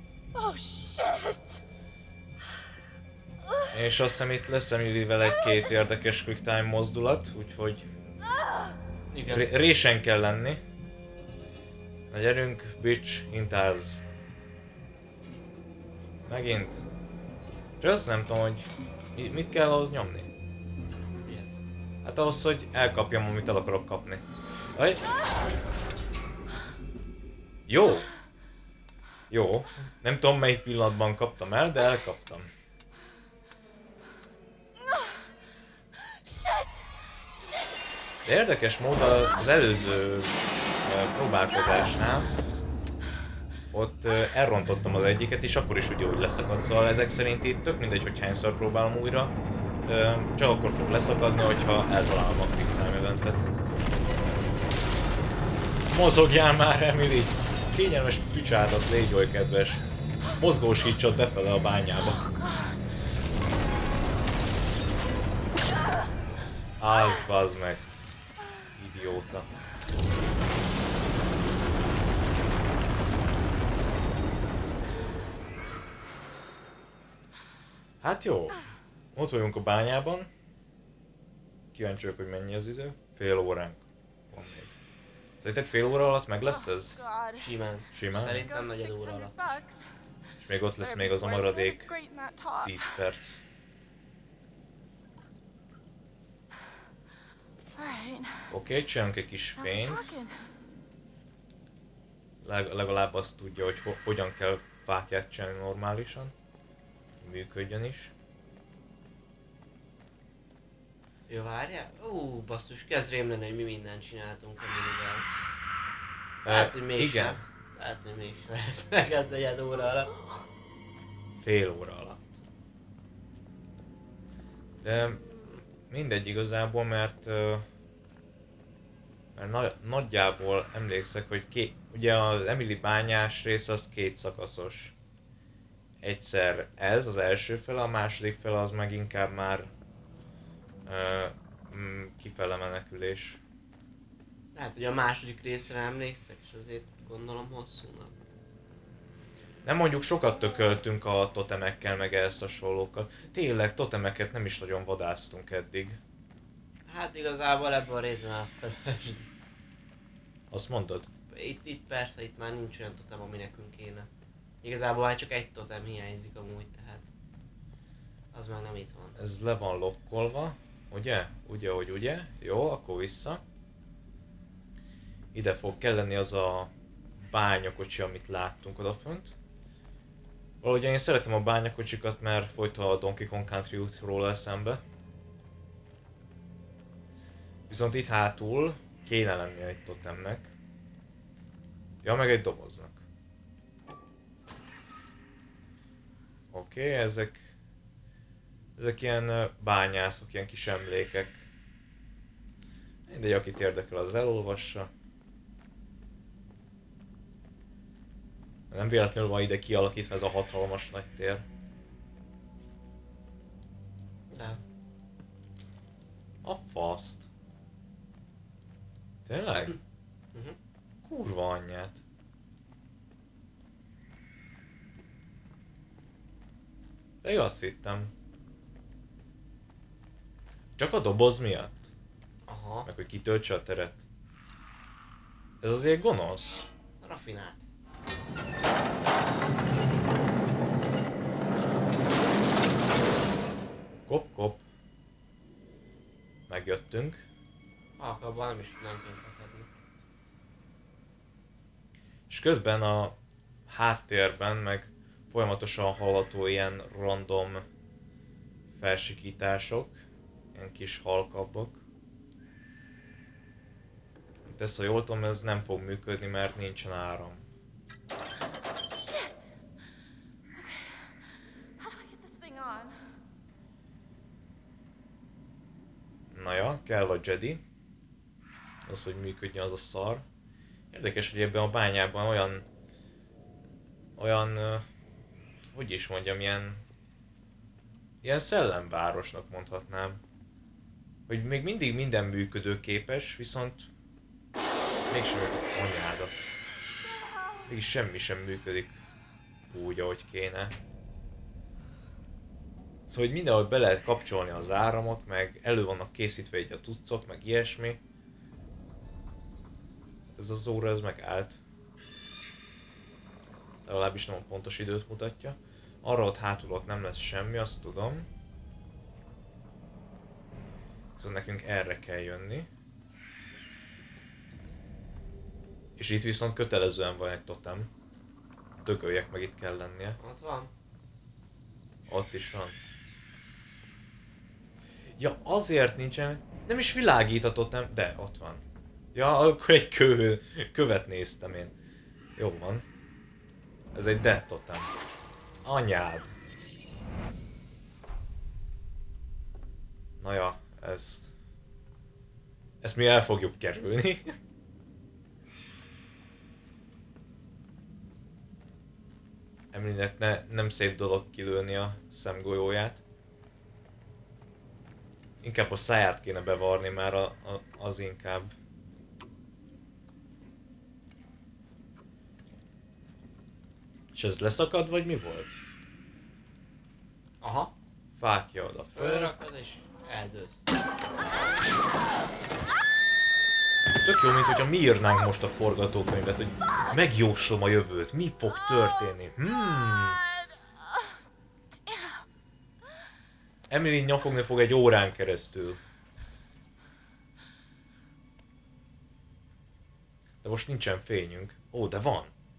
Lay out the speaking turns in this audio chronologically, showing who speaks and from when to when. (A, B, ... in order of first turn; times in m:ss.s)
0:00.3-0:01.6 A
0:03.7-0:07.9 B
0:08.3-0:08.7 A
0:09.1-0:09.5 C
0:09.3-0:10.6 B
0:12.1-0:14.0 B
0:16.2-0:16.8 B
0:17.8-0:20.3 B
0:21.2-0:21.6 C
0:22.0-0:24.2 B
0:24.7-0:25.0 B
0:27.7-0:28.1 B
0:29.3-0:32.5 B
0:36.2-0:36.8 A
0:37.4-0:37.6 A
0:38.2-0:42.3 B
0:43.7-0:49.3 B
0:49.8-0:53.5 B
0:55.9-1:02.2 B
1:02.0-1:02.8 A
1:06.8-1:07.9 B
1:08.7-1:09.5 B
1:18.0-1:18.6 B
1:19.1-1:20.3 B
1:21.7-1:24.7 B
1:25.4-1:27.0 B
1:26.4-1:29.8 A
1:27.3-1:29.4 C
1:27.9-1:28.4 B
1:30.4-1:32.0 B
1:30.8-1:33.0 A
1:32.6-1:33.4 B
1:37.8-1:38.5 A
1:38.5-1:40.1 B
1:39.6-1:40.4 A
1:42.4-1:46.3 B
1:47.2-1:48.1 B
1:51.3-1:55.3 C
1:56.4-1:57.4 B
1:56.5-2:00.1 C
2:01.4-2:02.3 B
2:04.8-2:05.2 B
2:05.9-2:07.6 B
2:09.3-2:14.9 B
2:16.0-2:19.7 B
2:20.8-2:23.4 B
2:24.5-2:28.1 C
2:29.6-2:36.0 B
2:36.9-2:39.3 C
2:40.5-2:41.1 B
2:41.3-2:44.1 C
2:44.6-2:47.0 C
2:48.3-2:49.2 C
2:49.2-2:53.4 B
2:55.3-2:59.3 B
3:00.6-3:04.8 B
3:07.7-3:10.5 B
3:12.0-3:13.0 B
3:16.5-3:17.4 B
3:18.8-3:21.4 B
3:23.1-3:24.9 B
3:28.7-3:31.4 B
3:34.3-3:34.6 C
3:36.4-3:37.3 B
3:39.2-3:39.8 B
3:41.0-3:42.0 B
3:47.2-3:48.1 B
3:50.8-3:51.9 B
3:52.5-3:52.9 C
3:52.8-3:54.0 B
3:55.6-3:56.6 B
3:57.0-3:57.6 C
4:04.1-4:04.6 B
4:06.5-4:07.2 B
4:08.0-4:09.7 C
4:12.3-4:13.2 B
4:13.7-4:17.6 B
4:18.7-4:20.0 B
4:20.5-4:21.8 B
4:24.4-4:27.4 B
4:28.8-4:29.4 A
4:30.5-4:31.2 A
4:31.8-4:33.1 A
4:36.3-4:37.6 B
4:38.8-4:40.2 B
4:40.9-4:42.6 B
4:44.2-4:44.8 B
4:45.7-4:46.8 B
4:48.2-4:50.2 B
4:51.3-4:53.9 B
4:55.1-4:56.3 B
4:57.7-4:59.0 B
4:59.7-5:00.7 B
5:03.1-5:08.0 B
5:10.4-5:11.6 B
5:13.8-5:18.3 B
5:21.2-5:22.7 B
5:26.0-5:27.9 B
5:28.8-5:30.2 B
5:30.2-5:30.7 C
5:32.1-5:32.8 B
5:35.2-5:38.6 B
5:39.1-5:41.7 B
5:42.4-5:42.8 B
5:43.9-5:44.9 B
5:45.6-5:46.3 B
5:50.2-5:51.3 B
5:52.8-5:54.4 B
5:59.7-6:03.0 B
6:05.4-6:08.5 B
6:14.1-6:15.6 B
6:17.4-6:17.7 C
6:18.2-6:19.3 B
6:18.9-6:20.6 C
6:24.0-6:30.2 B
6:29.8-6:31.1 A
6:31.8-6:32.2 A
6:33.7-6:35.8 B
6:40.4-6:42.3 B